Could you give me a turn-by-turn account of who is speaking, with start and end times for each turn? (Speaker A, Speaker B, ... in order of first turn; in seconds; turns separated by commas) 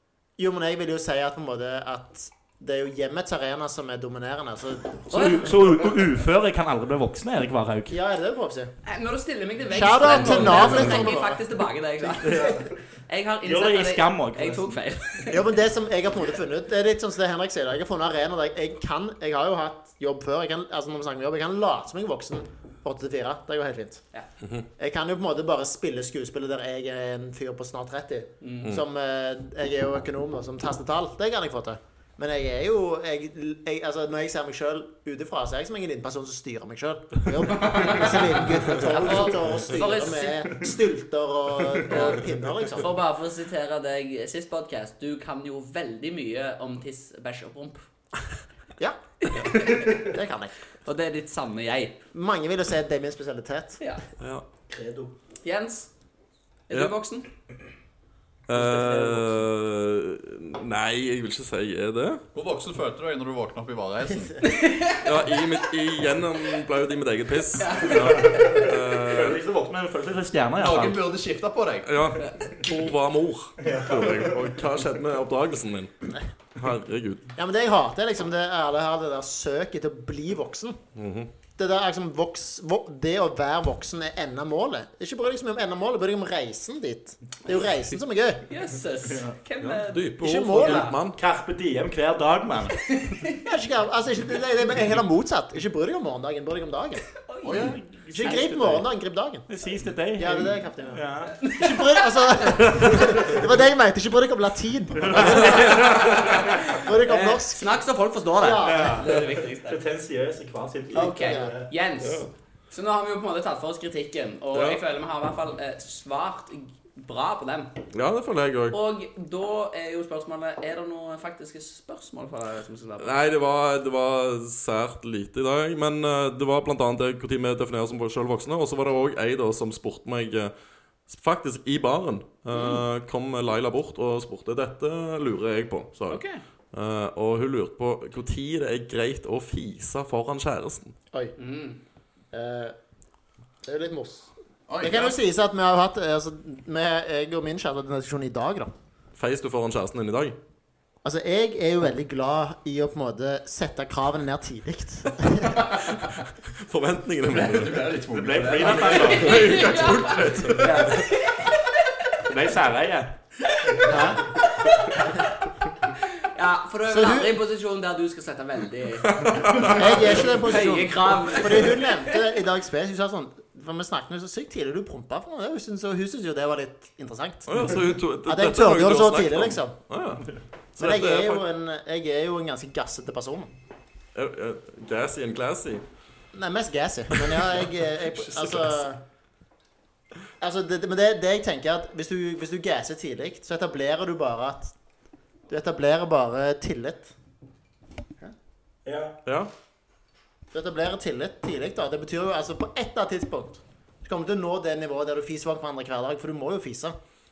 Speaker A: 0.4-5.3, Speaker B: 5.1-8.0, Speaker C: 5.1-5.5, Speaker A: 7.9-8.7, Speaker C: 8.8-15.5, Speaker A: 9.7-11.4, Speaker B: 12.2-12.8, Speaker B: 13.4-14.8, Speaker A: 15.3-24.1, Speaker D: 24.4-24.7, Speaker A: 24.8-42.9, Speaker C: 28.4-28.7, Speaker C: 37.6-40.7, Speaker C: 41.9-42.2, Speaker C: 42.7-47.9, Speaker C: 49.2-50.1, Speaker A: 49.8-50.6, Speaker C: 50.9-51.9, Speaker A: 52.1-53.8, Speaker D: 54.2-54.5, Speaker B: 54.7-55.1, Speaker C: 55.4-55.9, Speaker C: 56.7-57.3, Speaker D: 58.5-62.2, Speaker B: 58.6-59.3, Speaker E: 62.3-64.4, Speaker C: 64.4-65.1, Speaker D: 65.0-69.4, Speaker C: 67.6-68.8, Speaker B: 67.9-71.0, Speaker E: 70.6-71.9, Speaker D: 71.9-76.0, Speaker C: 72.2-72.5, Speaker B: 73.6-74.4, Speaker D: 76.6-77.3, Speaker A: 77.3-80.8, Speaker D: 81.0-81.3, Speaker A: 81.6-88.4, Speaker C: 88.5-90.9, Speaker D: 89.6-91.2, Speaker A: 90.2-90.9, Speaker B: 91.2-93.0, Speaker C: 92.9-93.4, Speaker A: 93.5-97.0, Speaker C: 97.3-98.4, Speaker E: 97.4-97.8, Speaker B: 97.6-98.8, Speaker A: 98.1-99.6, Speaker B: 99.5-101.4, Speaker A: 100.2-106.1, Speaker C: 101.4-102.5, Speaker B: 102.8-103.2, Speaker B: 105.1-106.0, Speaker C: 105.2-109.8, Speaker D: 105.8-106.2, Speaker A: 106.6-107.7, Speaker A: 108.4-109.1, Speaker B: 108.6-111.7, Speaker A: 110.9-111.5, Speaker C: 110.9-117.7, Speaker D: 112.0-112.3, Speaker D: 114.5-114.8, Speaker D: 117.9-118.8, Speaker C: 118.7-123.1, Speaker D: 123.0-130.5, Speaker D: 131.1-141.0, Speaker C: 132.5-132.8, Speaker C: 136.1-136.4, Speaker C: 141.4-141.8, Speaker A: 142.3-142.8, Speaker A: 143.6-148.7, Speaker E: 144.7-145.2, Speaker D: 149.2-150.4, Speaker A: 151.0-155.7, Speaker D: 156.5-157.9, Speaker E: 157.3-161.0, Speaker B: 158.1-159.4, Speaker C: 158.6-161.9, Speaker D: 159.0-161.0, Speaker B: 162.3-163.2, Speaker C: 163.6-165.2, Speaker A: 163.8-164.2, Speaker C: 165.9-172.2, Speaker A: 166.9-167.3, Speaker A: 169.8-177.6, Speaker D: 177.5-181.4, Speaker A: 178.2-179.8, Speaker A: 180.8-183.5, Speaker D: 184.2-185.8, Speaker A: 186.3-189.0, Speaker D: 188.2-188.8, Speaker A: 190.4-194.8, Speaker A: 195.5-197.2, Speaker B: 198.8-199.2, Speaker D: 199.2-199.5, Speaker A: 200.5-207.0